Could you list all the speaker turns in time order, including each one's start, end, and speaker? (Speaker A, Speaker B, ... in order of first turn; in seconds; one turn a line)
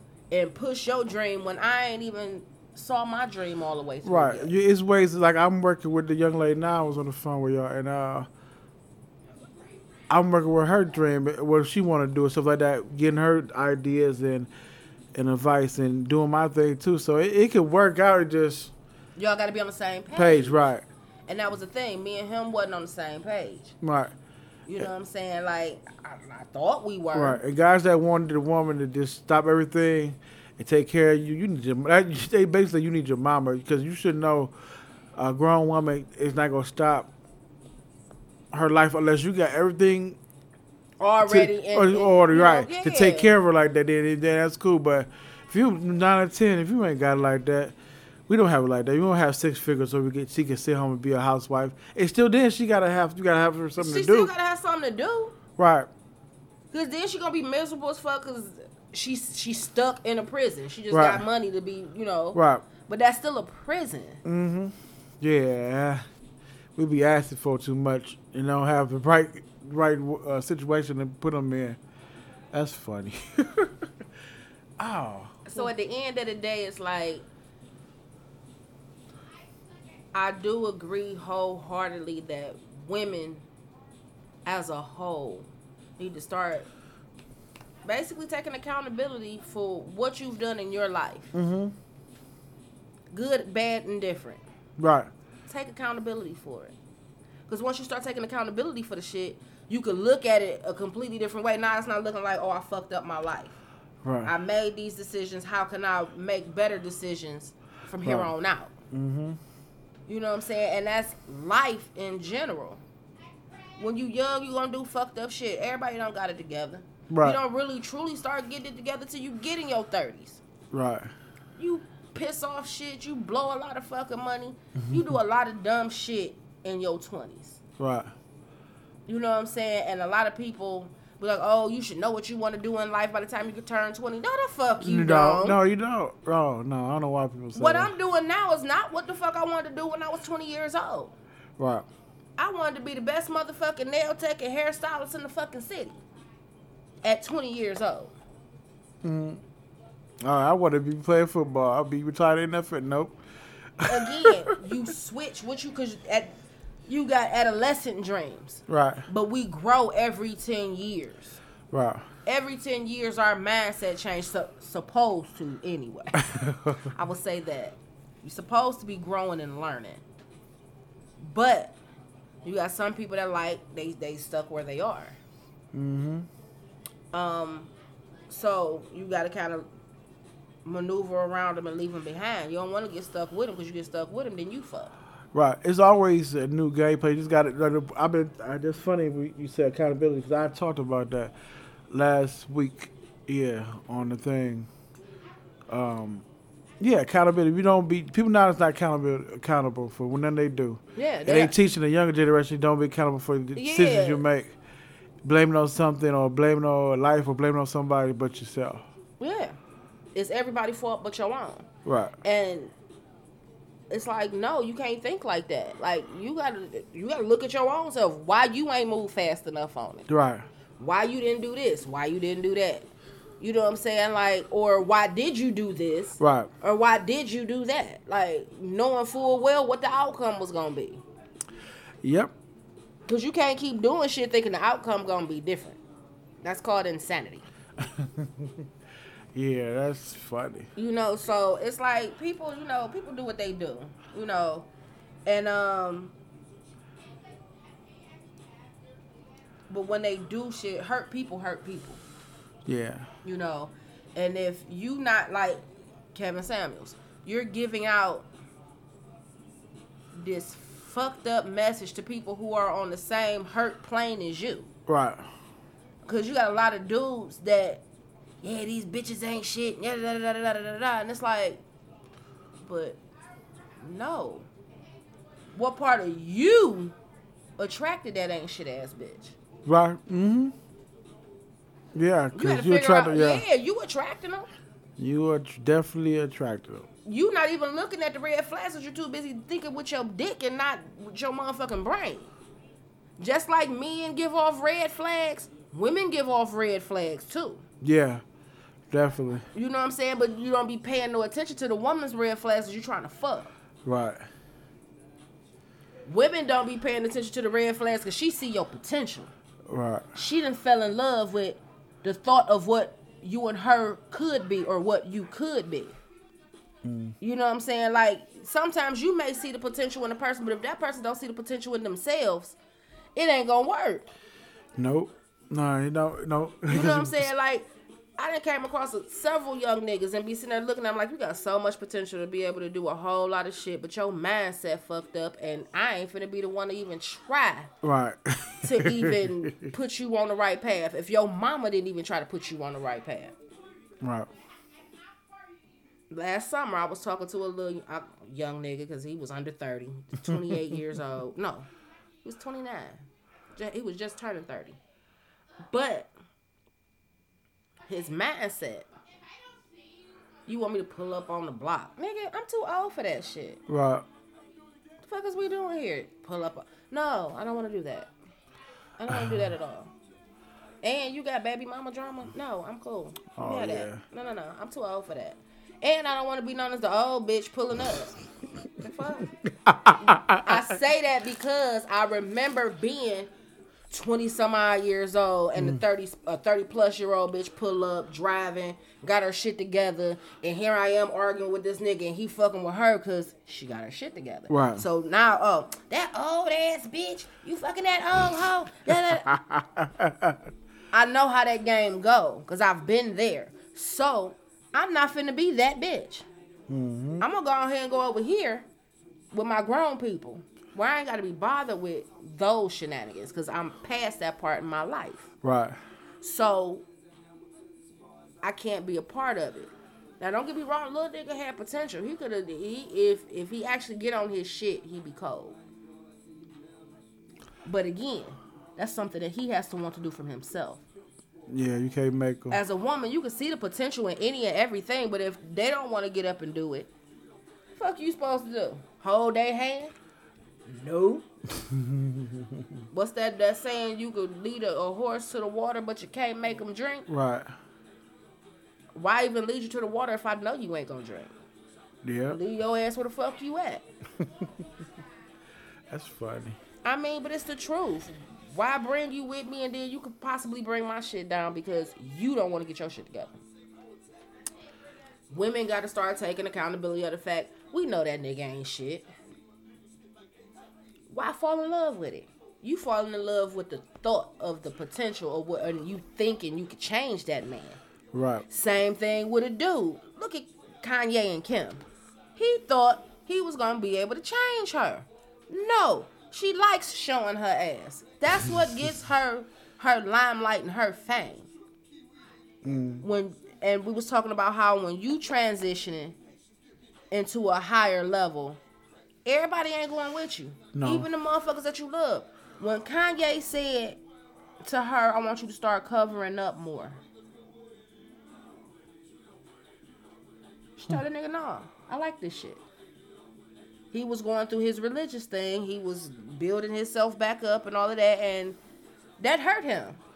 Speaker A: 0.3-4.5
Speaker B: 4.0-8.3
Speaker B: 10.1-14.5
Speaker B: 15.1-18.7
Speaker A: 19.2-20.6
Speaker B: 20.1-20.8
Speaker A: 21.3-23.7
Speaker B: 23.8-24.1
Speaker A: 24.7-27.4
Speaker B: 27.1-34.5
Speaker B: 35.1-37.1
Speaker B: 38.5-40.2
Speaker A: 41.0-43.3
Speaker B: 41.2-47.7
Speaker B: 48.3-54.3
Speaker A: 53.8-55.4
Speaker B: 55.6-55.9
Speaker A: 56.7-64.2
Speaker B: 60.9-61.2
Speaker B: 62.3-62.6
Speaker B: 64.2-66.0
Speaker B: 66.8-71.8
Speaker B: 72.5-73.9
Speaker B: 74.8-75.7
Speaker A: 75.5-77.3
Speaker A: 80.1-83.5
Speaker A: 84.5-86.7
Speaker A: 87.8-91.3
Speaker B: 91.3-91.7
Speaker A: 93.1-94.4
Speaker B: 94.8-95.1
Speaker A: 95.5-96.7
Speaker A: 97.5-103.6
Speaker B: 104.0-104.3
Speaker A: 104.2-108.7
Speaker B: 108.0-108.3
Speaker B: 108.9-109.4
Speaker A: 110.1-112.8
Speaker A: 113.8-120.4
Speaker B: 117.1-117.4
Speaker B: 120.7-121.1
Speaker A: 121.6-127.6
Speaker B: 127.8-128.1
Speaker A: 129.1-135.6
Speaker B: 134.8-137.9
Speaker A: 137.5-141.1
Speaker B: 141.6-141.9
Speaker A: 142.4-146.0
Speaker A: 147.0-148.2
Speaker B: 149.0-149.4
Speaker B: 150.2-153.2
Speaker B: 153.8-154.5
Speaker A: 153.8-161.4
Speaker B: 158.7-159.0
Speaker B: 161.7-162.1
Speaker A: 162.2-166.2
Speaker B: 166.2-166.8
Speaker A: 166.8-170.0
Speaker A: 171.2-171.8
Speaker A: 172.4-175.2
Speaker B: 175.7-176.3
Speaker A: 177.1-177.7
Speaker A: 178.3-179.7
Speaker A: 180.6-184.9
Speaker B: 185.3-191.3
Speaker B: 191.9-194.7
Speaker B: 195.7-196.2
Speaker B: 196.8-204.5
Speaker A: 200.9-201.5
Speaker A: 203.5-204.2
Speaker B: 205.2-208.8
Speaker A: 209.2-209.6
Speaker A: 210.1-211.7
Speaker B: 211.8-212.1
Speaker A: 212.2-212.7
Speaker A: 213.9-220.1
Speaker B: 220.1-220.5
Speaker A: 220.8-222.9
Speaker A: 223.4-231.0
Speaker B: 226.2-226.5
Speaker B: 232.0-232.3
Speaker A: 233.1-235.8
Speaker A: 236.4-237.5
Speaker B: 237.8-238.7
Speaker B: 239.3-240.7
Speaker A: 240.8-244.7
Speaker A: 245.2-246.1
Speaker A: 249.7-252.0
Speaker B: 252.7-253.1
Speaker A: 253.2-258.3
Speaker A: 260.1-264.7
Speaker B: 264.9-265.2
Speaker A: 266.0-267.8
Speaker A: 268.4-271.6
Speaker A: 272.6-273.0
Speaker A: 273.8-274.5
Speaker A: 275.5-276.9
Speaker A: 277.6-279.4
Speaker B: 279.6-280.5
Speaker B: 281.9-283.4
Speaker A: 282.3-284.5
Speaker B: 285.0-286.9
Speaker A: 287.1-292.3
Speaker A: 293.2-297.6
Speaker B: 297.8-298.2
Speaker B: 298.9-299.4
Speaker A: 299.5-303.5
Speaker B: 303.8-304.3
Speaker A: 306.1-309.3
Speaker B: 309.7-310.1
Speaker A: 310.1-316.0
Speaker B: 316.8-317.1
Speaker A: 317.2-322.6
Speaker A: 323.1-324.1
Speaker B: 324.8-327.3
Speaker A: 326.7-327.7
Speaker A: 328.2-337.7
Speaker B: 337.8-339.7
Speaker A: 338.6-343.3
Speaker B: 344.0-344.3
Speaker A: 346.1-351.7
Speaker A: 352.2-353.0
Speaker A: 353.6-354.8
Speaker A: 355.7-356.1
Speaker A: 357.9-358.9
Speaker A: 360.5-363.6
Speaker B: 363.7-364.1
Speaker A: 365.1-368.1
Speaker A: 369.0-369.9
Speaker B: 369.1-369.4
Speaker A: 370.8-378.1
Speaker B: 373.4-374.0
Speaker A: 378.8-379.3
Speaker B: 379.6-380.5
Speaker A: 380.0-383.3
Speaker A: 383.9-399.3
Speaker B: 385.6-385.8
Speaker B: 394.5-394.8
Speaker B: 398.9-400.4
Speaker A: 400.9-406.3
Speaker B: 406.7-407.2
Speaker A: 407.2-408.6
Speaker A: 409.3-415.3
Speaker B: 415.4-415.8
Speaker A: 416.2-416.8
Speaker A: 418.4-425.6
Speaker A: 427.6-430.8
Speaker B: 431.5-432.6
Speaker A: 432.5-436.9
Speaker A: 437.8-439.9
Speaker A: 440.7-441.2
Speaker B: 441.6-442.6
Speaker A: 442.9-447.1
Speaker B: 447.1-447.5
Speaker A: 448.9-451.3
Speaker B: 452.0-452.4
Speaker A: 452.3-453.8
Speaker B: 455.9-456.6
Speaker A: 456.8-463.3
Speaker A: 465.3-469.1
Speaker A: 471.1-477.8
Speaker B: 478.1-478.4
Speaker A: 478.5-481.8
Speaker A: 482.4-491.5
Speaker B: 492.6-493.0
Speaker A: 493.0-496.2
Speaker A: 497.1-498.6
Speaker A: 499.2-504.0
Speaker B: 500.7-501.1
Speaker A: 504.6-507.0
Speaker A: 510.8-512.6
Speaker A: 513.9-518.6
Speaker A: 519.2-520.0